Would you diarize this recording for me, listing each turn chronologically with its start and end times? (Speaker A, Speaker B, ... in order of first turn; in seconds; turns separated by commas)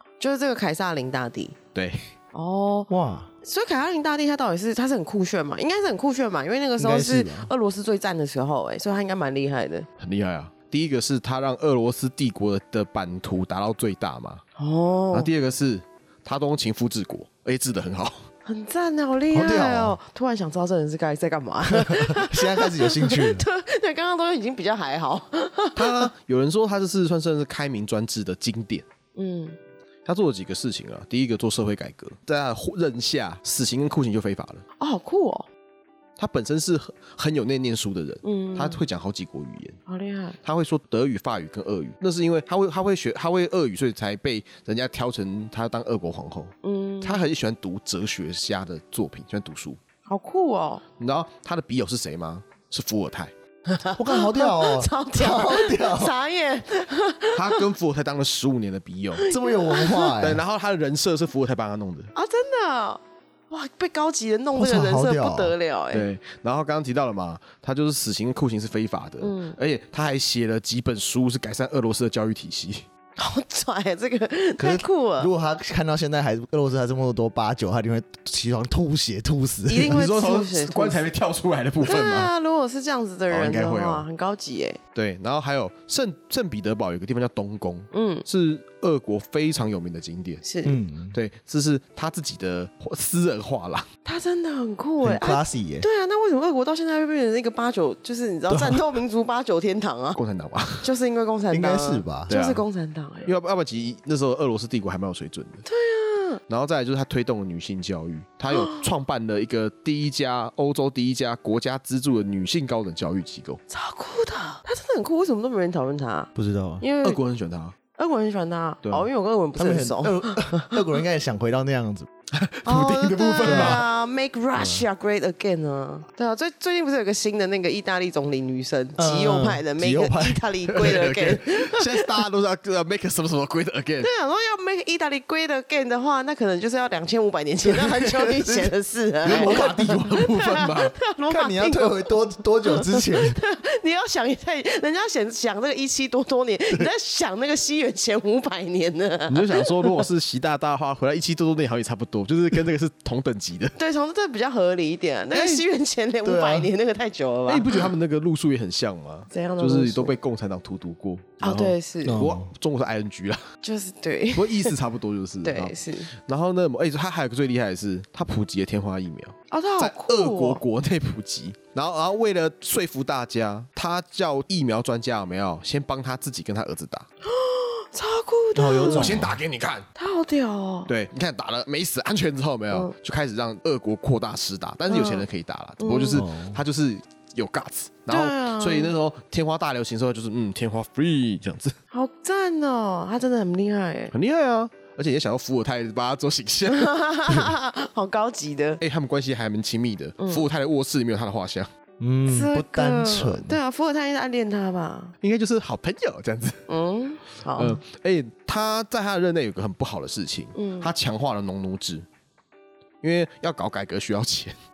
Speaker A: 0.2-1.6, Speaker B: 1.7-2.0, Speaker A: 2.3-2.9, Speaker C: 2.9-3.3, Speaker A: 3.4-9.9, Speaker C: 6.8-7.5, Speaker B: 10.0-14.4, Speaker A: 14.6-15.3, Speaker B: 15.1-18.3, Speaker A: 18.4-26.1, Speaker C: 19.3-20.0, Speaker C: 21.7-23.4, Speaker B: 25.8-28.8, Speaker A: 29.1-29.6, Speaker B: 30.1-34.6, Speaker A: 34.8-35.5, Speaker B: 36.2-39.8, Speaker A: 38.2-38.8, Speaker A: 39.9-40.4, Speaker B: 40.4-49.8, Speaker A: 46.6-47.2, Speaker A: 50.1-50.8, Speaker B: 51.0-53.3, Speaker A: 53.7-57.7, Speaker C: 53.9-56.1, Speaker B: 57.3-59.2, Speaker A: 59.1-60.2, Speaker C: 59.3-60.4, Speaker B: 60.2-62.1, Speaker A: 62.1-66.1, Speaker C: 64.5-65.5, Speaker B: 65.9-72.8, Speaker A: 69.2-69.5, Speaker A: 73.2-75.3, Speaker C: 74.6-80.0, Speaker A: 79.7-81.0, Speaker B: 79.8-82.3, Speaker A: 81.8-84.8, Speaker B: 83.3-84.0, Speaker B: 84.9-90.4, Speaker A: 87.9-88.2, Speaker A: 90.4-90.8, Speaker C: 90.6-91.2, Speaker B: 91.1-93.9, Speaker A: 94.0-100.2, Speaker C: 95.0-95.8, Speaker C: 98.5-98.8, Speaker B: 100.2-100.9, Speaker A: 100.8-103.3, Speaker C: 101.5-102.3, Speaker B: 102.3-102.6, Speaker B: 103.2-105.6, Speaker A: 105.7-106.4, Speaker B: 106.5-113.6, Speaker A: 108.5-108.8, Speaker A: 113.7-117.2, Speaker C: 116.3-116.8, Speaker B: 117.0-117.7, Speaker A: 117.9-120.8, Speaker C: 119.5-122.1, Speaker B: 122.3-123.8, Speaker A: 122.6-132.1, Speaker C: 123.4-123.8, Speaker C: 124.5-124.8, Speaker C: 129.0-130.4, Speaker B: 130.7-134.1, Speaker A: 134.0-150.0, Speaker C: 138.0-140.1, Speaker B: 139.2-140.9, Speaker C: 141.3-143.4, Speaker B: 149.3-153.7, Speaker A: 153.8-157.8, Speaker B: 155.3-155.6, Speaker C: 156.2-156.7, Speaker B: 157.5-163.4, Speaker A: 159.3-160.1, Speaker A: 161.4-162.2, Speaker C: 162.0-162.5, Speaker A: 163.6-164.7, Speaker B: 164.3-177.1, Speaker A: 165.4-166.1, Speaker A: 169.5-170.6, Speaker A: 177.2-179.2, Speaker C: 178.5-179.4, Speaker B: 178.8-179.9, Speaker A: 179.9-180.9, Speaker B: 180.9-191.7, Speaker A: 184.9-185.2, Speaker A: 185.8-186.2, Speaker C: 186.1-186.6, Speaker A: 188.1-188.9, Speaker A: 191.9-194.1, Speaker B: 194.1-196.9, Speaker A: 196.7-198.8, Speaker B: 198.8-201.7, Speaker A: 200.2-200.4, Speaker C: 202.0-203.6, Speaker A: 202.3-205.1, Speaker B: 205.2-206.6, Speaker A: 206.7-207.8, Speaker B: 207.5-212.1, Speaker A: 210.5-210.9, Speaker B: 213.0-214.6